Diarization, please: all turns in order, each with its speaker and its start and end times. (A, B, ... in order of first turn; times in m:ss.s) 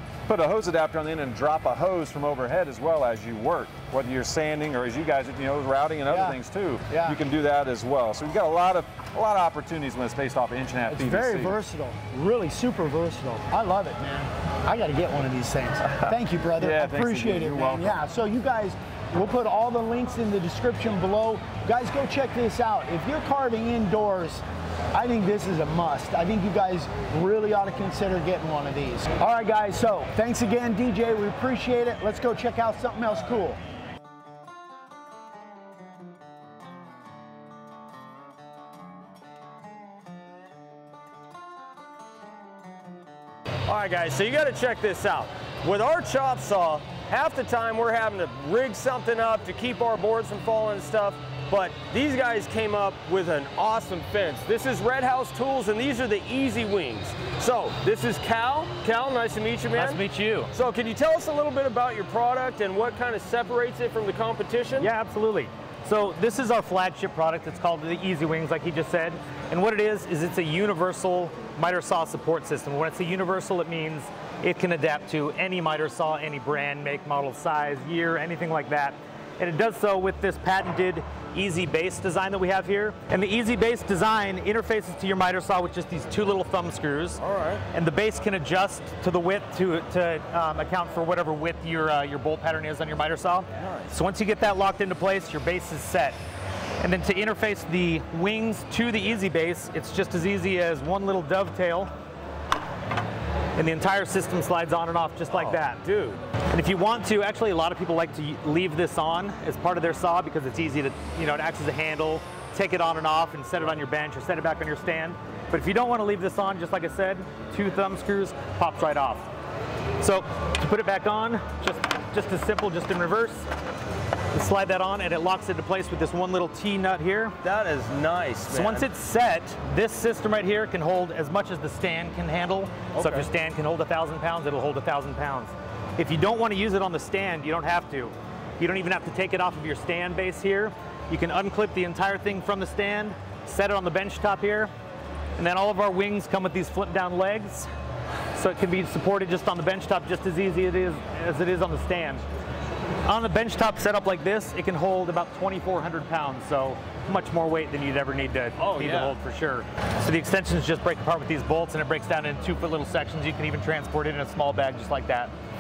0:00.3-0:11.6 A
0:06.1-0:06.4 B
0:06.9-0:07.2 B
0:10.9-0:33.6 B
0:15.8-0:18.0 A
0:43.7-1:04.9 C
0:59.8-1:00.5 D
1:04.8-1:36.2 D
1:27.2-1:27.6 C
1:33.6-1:34.0 C
1:36.8-1:41.9 D
1:43.6-1:45.8 D
1:45.3-1:46.2 C
1:46.5-1:59.3 D
2:00.0-2:03.5 D
2:04.3-2:07.4 D
2:07.4-2:08.9 C
2:08.5-2:24.7 D
2:12.9-2:13.3 C
2:25.4-2:27.7 D
2:28.4-2:32.2 D
2:33.0-2:45.3 D
2:38.6-2:39.2 C